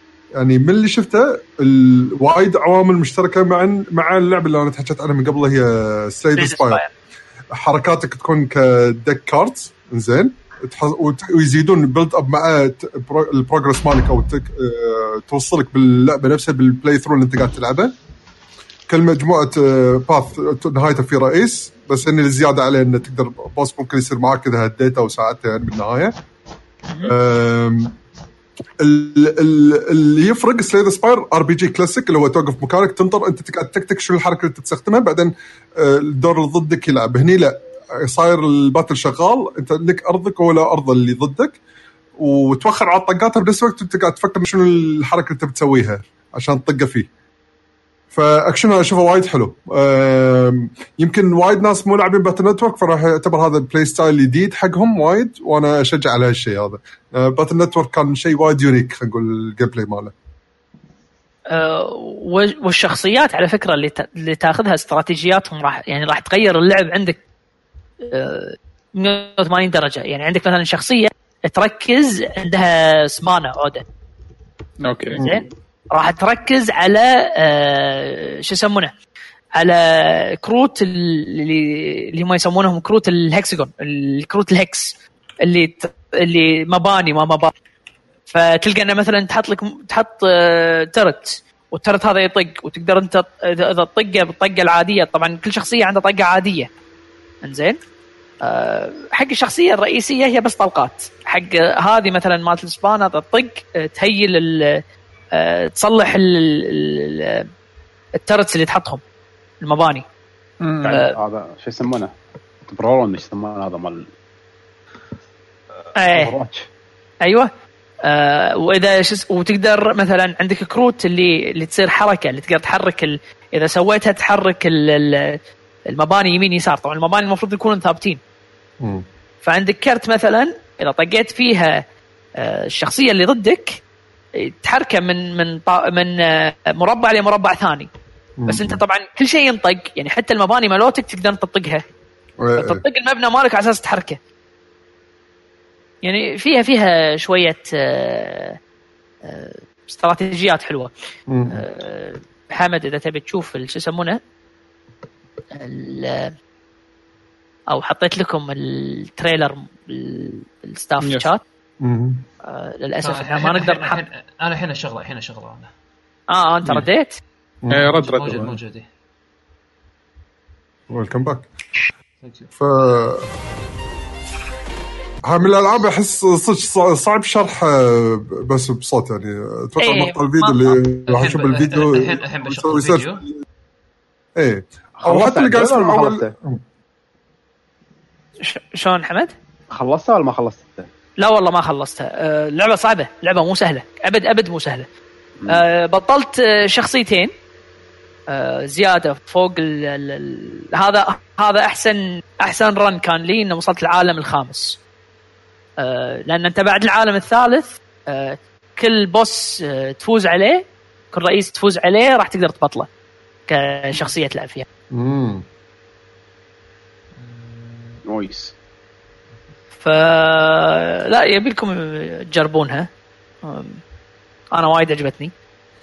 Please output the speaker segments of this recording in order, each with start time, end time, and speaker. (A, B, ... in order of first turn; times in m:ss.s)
0:00.4-0:06.8 A
0:06.4-0:06.9 B
0:07.6-0:17.9 A
0:18.9-0:26.1 A
0:27.0-0:27.9 A
0:28.8-0:41.6 A
0:42.2-0:47.1 A
0:48.1-1:00.1 A
1:01.5-1:07.2 B
1:08.0-1:13.8 B
1:14.8-1:15.3 C
1:15.2-1:18.9 B
1:19.6-1:27.5 B
1:28.3-1:36.7 B
1:37.4-1:37.8 B
1:38.4-1:44.8 B
1:45.3-1:47.5 B
1:48.2-1:49.0 B
1:49.6-1:50.0 B
1:50.6-1:51.1 C
1:50.8-1:52.1 D
1:50.9-1:51.2 B
1:52.7-1:54.1 D
1:56.0-1:56.3 B
1:56.1-1:56.7 D
1:57.2-1:57.5 B
1:58.0-2:08.2 B
2:09.4-2:11.8 B
2:12.4-2:13.8 B
2:14.4-2:17.9 B
2:18.4-2:18.8 A
2:18.5-2:21.8 B
2:22.4-2:22.8 A
2:22.6-2:24.2 B
2:26.0-2:28.6 B
2:29.2-2:30.9 B
2:31.3-2:31.6 A
2:31.5-2:34.2 B
2:35.5-2:36.3 B
2:37.7-2:41.4 B
2:41.8-2:42.2 A
2:42.4-2:44.0 B
2:43.0-2:45.7 E
2:46.3-2:47.2 B
2:47.7-2:48.6 C
2:47.8-2:48.9 E
2:50.9-2:51.5 A
2:52.2-2:52.5 E
2:52.6-2:53.3 A
2:55.3-3:03.3 A
2:59.8-3:00.7 B
3:01.1-3:03.2 E
3:04.4-3:06.6 A
3:05.0-3:06.3 D
3:08.4-3:09.3 B
3:09.7-3:10.9 D
3:11.2-3:14.9 B
3:15.5-3:17.3 B
3:18.3-3:24.8 B
3:25.8-3:32.9 B
3:33.5-3:34.7 B
3:34.9-3:35.4 A
3:37.2-3:38.0 E
3:38.0-3:38.5 D
3:39.8-3:42.9 B
3:43.4-3:43.8 B
3:44.5-3:45.3 B